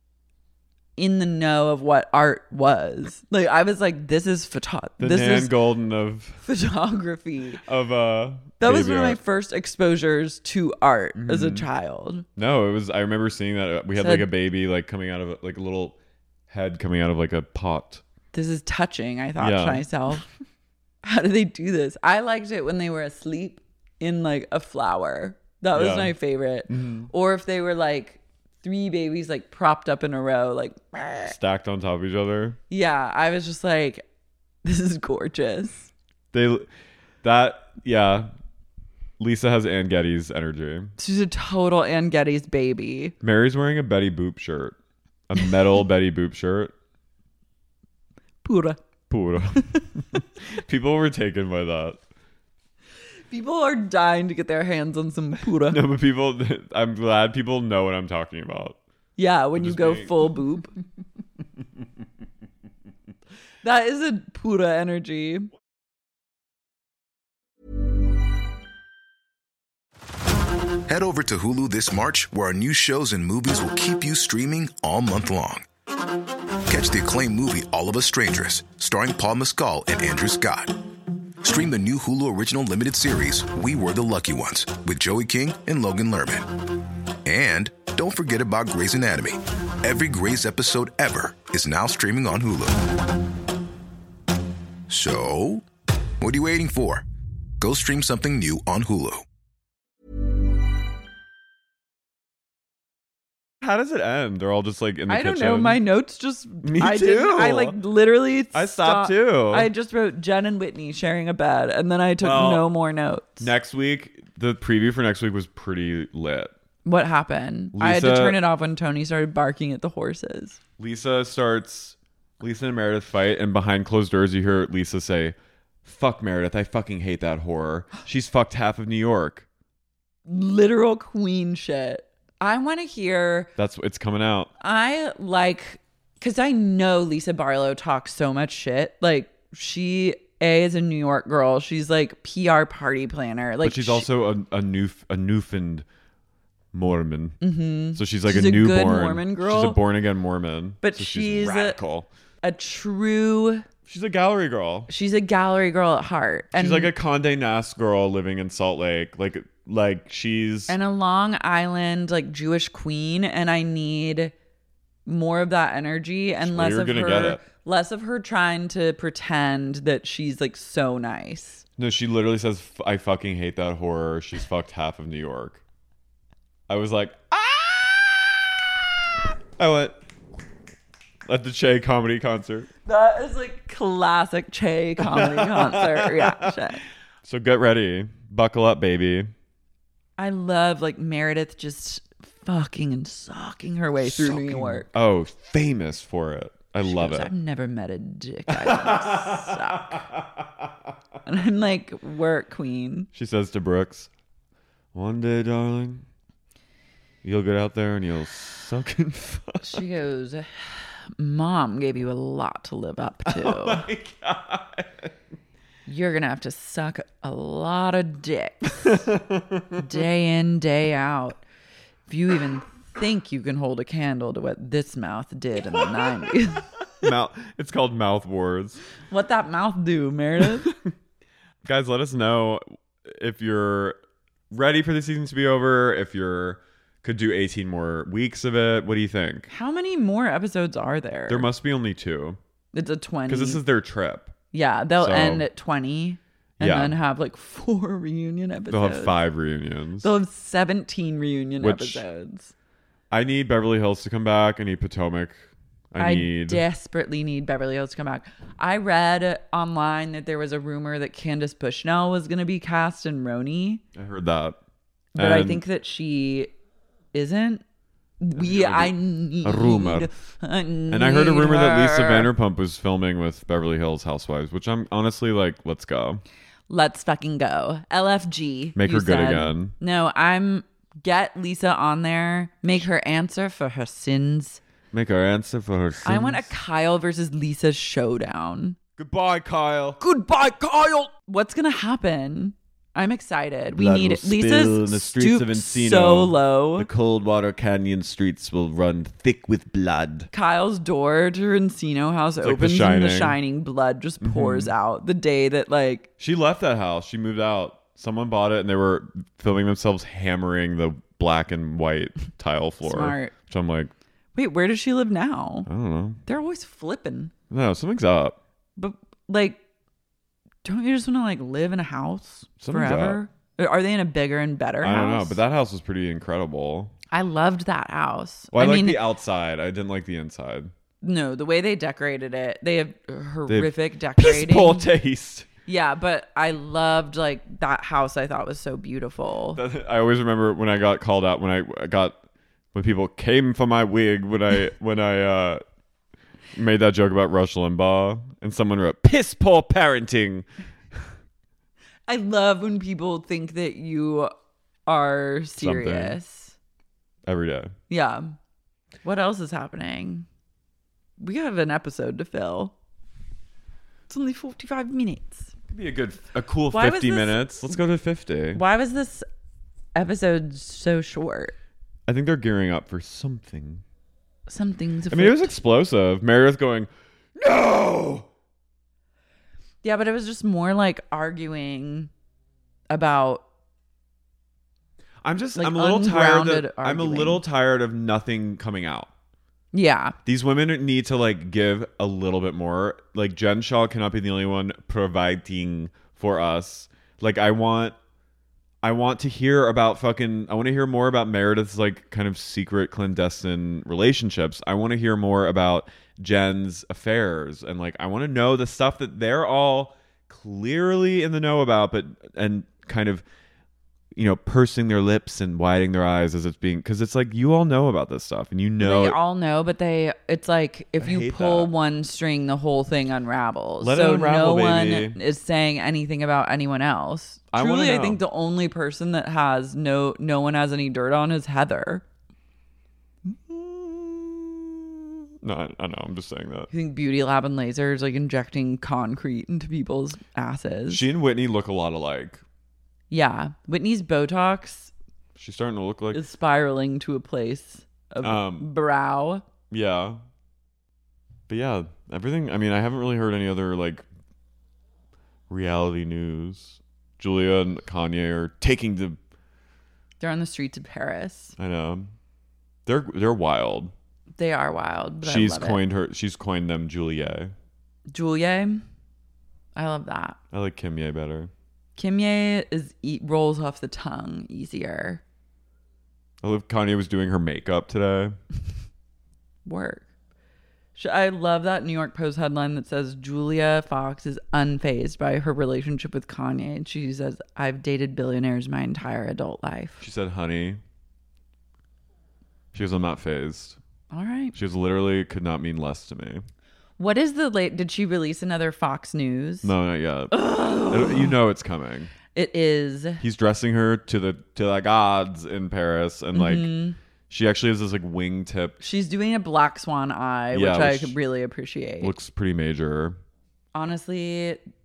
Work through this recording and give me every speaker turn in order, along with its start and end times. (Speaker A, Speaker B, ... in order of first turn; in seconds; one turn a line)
Speaker A: 1.0-5.5
Speaker B: 5.0-6.4
Speaker A: 6.4-7.6
Speaker B: 7.6-9.2
Speaker A: 8.6-12.2
Speaker B: 11.2-11.7
Speaker B: 12.3-16.0
Speaker A: 14.0-14.3
Speaker B: 16.5-18.0
Speaker A: 18.3-20.2
Speaker B: 19.4-19.8
Speaker A: 21.0-31.3
Speaker B: 25.7-26.1
Speaker B: 26.7-27.1
Speaker B: 31.2-32.6
Speaker A: 32.7-34.0
Speaker A: 34.6-35.9
Speaker B: 36.3-36.7
Speaker B: 37.2-38.3
Speaker B: 39.2-40.9
Speaker A: 41.0-43.1
Speaker B: 43.2-44.8
Speaker B: 45.3-46.7
Speaker A: 48.4-48.8
Speaker B: 49.1-52.0
Speaker A: 53.3-55.8
Speaker B: 55.7-58.8
Speaker A: 59.2-60.7
Speaker B: 59.5-60.3
Speaker A: 63.6-65.5
Speaker C: 70.9-75.6
Speaker C: 76.7-80.7
Speaker C: 81.4-86.5
Speaker C: 87.2-92.8
Speaker C: 94.9-95.6
Speaker C: 96.2-97.0
Speaker C: 97.6-99.2
Speaker B: 103.6-105.8
Speaker A: 105.1-113.5
Speaker B: 106.6-107.8
Speaker B: 108.5-109.7
Speaker B: 112.2-112.7
Speaker B: 113.4-116.5
Speaker A: 116.8-120.6
Speaker B: 117.7-118.4
Speaker B: 120.8-129.5
Speaker A: 130.3-133.5
Speaker B: 133.6-134.5
Speaker A: 134.6-144.1
Speaker B: 143.6-145.8
Speaker B: 146.7-147.4
Speaker A: 147.4-149.8
Speaker B: 147.9-152.1
Speaker A: 150.8-151.8
Speaker A: 152.4-153.7
Speaker B: 153.8-154.9
Speaker A: 154.9-156.9
Speaker B: 156.5-160.7
Speaker A: 160.7-164.3
Speaker A: 165.1-171.6
Speaker B: 166.4-167.4
Speaker B: 171.8-175.6
Speaker B: 176.7-178.4
Speaker B: 179.6-180.0
Speaker B: 181.2-182.7
Speaker A: 182.8-186.8
Speaker B: 185.0-186.6
Speaker B: 187.2-189.3
Speaker A: 190.2-194.9
Speaker B: 194.0-197.3
Speaker A: 196.8-200.0
Speaker B: 198.5-200.4
Speaker A: 201.2-203.1
Speaker B: 203.1-204.1
Speaker B: 204.9-206.0
Speaker B: 207.2-209.9
Speaker A: 209.6-213.8
Speaker B: 213.3-215.1
Speaker A: 215.8-219.0
Speaker B: 218.8-219.8
Speaker A: 219.8-221.4
Speaker A: 222.1-226.7
Speaker B: 227.0-228.8
Speaker A: 229.1-230.7
Speaker B: 231.6-234.0
Speaker B: 234.5-239.5
Speaker A: 239.5-241.5
Speaker B: 241.3-242.4
Speaker A: 242.7-243.6
Speaker B: 243.3-244.3
Speaker A: 244.5-249.1
Speaker B: 245.0-245.4
Speaker B: 246.6-247.0
Speaker B: 248.7-250.1
Speaker A: 250.0-252.5
Speaker B: 251.6-252.0
Speaker B: 253.1-256.6
Speaker A: 256.0-263.8
Speaker B: 263.9-264.6
Speaker B: 265.1-265.6
Speaker A: 265.1-266.5
Speaker A: 267.1-267.6
Speaker A: 268.2-272.3
Speaker B: 268.4-270.1
Speaker B: 270.9-276.2
Speaker A: 276.7-284.6
Speaker B: 278.8-279.7
Speaker B: 284.9-286.5
Speaker A: 286.0-288.8
Speaker B: 289.0-290.0
Speaker A: 290.0-296.9
Speaker B: 293.7-300.3
Speaker A: 300.3-306.1
Speaker B: 302.4-303.4
Speaker B: 304.2-304.7
Speaker B: 306.2-313.9
Speaker A: 312.8-313.3
Speaker A: 314.3-315.7
Speaker B: 315.7-316.2
Speaker A: 316.2-317.3
Speaker B: 317.5-318.4
Speaker A: 318.8-319.6
Speaker A: 320.6-325.4
Speaker B: 322.6-323.2
Speaker B: 324.8-326.9
Speaker A: 327.1-329.0
Speaker B: 328.5-330.7
Speaker A: 331.0-334.9
Speaker B: 333.5-335.5
Speaker A: 335.7-339.6
Speaker B: 339.5-342.2
Speaker B: 342.7-345.6
Speaker B: 346.5-351.0
Speaker A: 352.1-354.3
Speaker A: 354.9-356.6
Speaker B: 355.6-356.2
Speaker B: 357.3-357.7
Speaker A: 357.9-358.4
Speaker A: 359.0-360.3
Speaker A: 361.2-362.7
Speaker A: 364.1-365.5
Speaker B: 365.7-368.6
Speaker A: 366.7-367.8
Speaker A: 368.5-369.2
Speaker A: 369.9-371.5
Speaker B: 372.1-373.8
Speaker A: 374.5-375.5
Speaker B: 375.1-378.3
Speaker A: 379.8-382.1
Speaker A: 382.9-383.4
Speaker B: 385.2-389.1
Speaker A: 385.6-387.4
Speaker A: 389.7-390.1
Speaker B: 390.2-397.9
Speaker B: 398.8-413.2
Speaker B: 414.1-419.2
Speaker A: 418.8-432.0
Speaker B: 421.0-421.7
Speaker B: 423.8-425.2
Speaker B: 427.5-428.2
Speaker B: 433.5-434.7
Speaker B: 435.4-436.7
Speaker A: 436.7-441.0
Speaker B: 440.9-442.4
Speaker A: 443.1-444.9
Speaker B: 445.4-446.2
Speaker A: 446.1-449.4
Speaker B: 448.2-448.7
Speaker B: 449.7-450.2
Speaker B: 451.5-454.0
Speaker B: 455.5-459.2
Speaker A: 460.2-461.5
Speaker B: 461.6-462.1
Speaker B: 462.9-463.9
Speaker A: 464.4-465.8
Speaker B: 465.2-467.5
Speaker A: 468.1-468.8
Speaker A: 469.7-470.4
Speaker B: 470.5-471.5
Speaker A: 471.9-475.2
Speaker B: 476.4-478.4
Speaker A: 479.6-480.1
Speaker A: 480.9-490.0
Speaker B: 490.0-490.8
Speaker B: 492.7-493.8
Speaker A: 494.1-494.5
Speaker B: 494.5-496.4
Speaker A: 497.0-499.7
Speaker B: 499.6-502.1
Speaker A: 500.3-501.3
Speaker A: 502.3-503.2
Speaker B: 503.2-506.7
Speaker A: 506.3-507.0
Speaker B: 507.3-508.8
Speaker A: 508.8-512.1
Speaker B: 510.5-511.1
Speaker B: 512.0-513.2
Speaker A: 513.7-514.6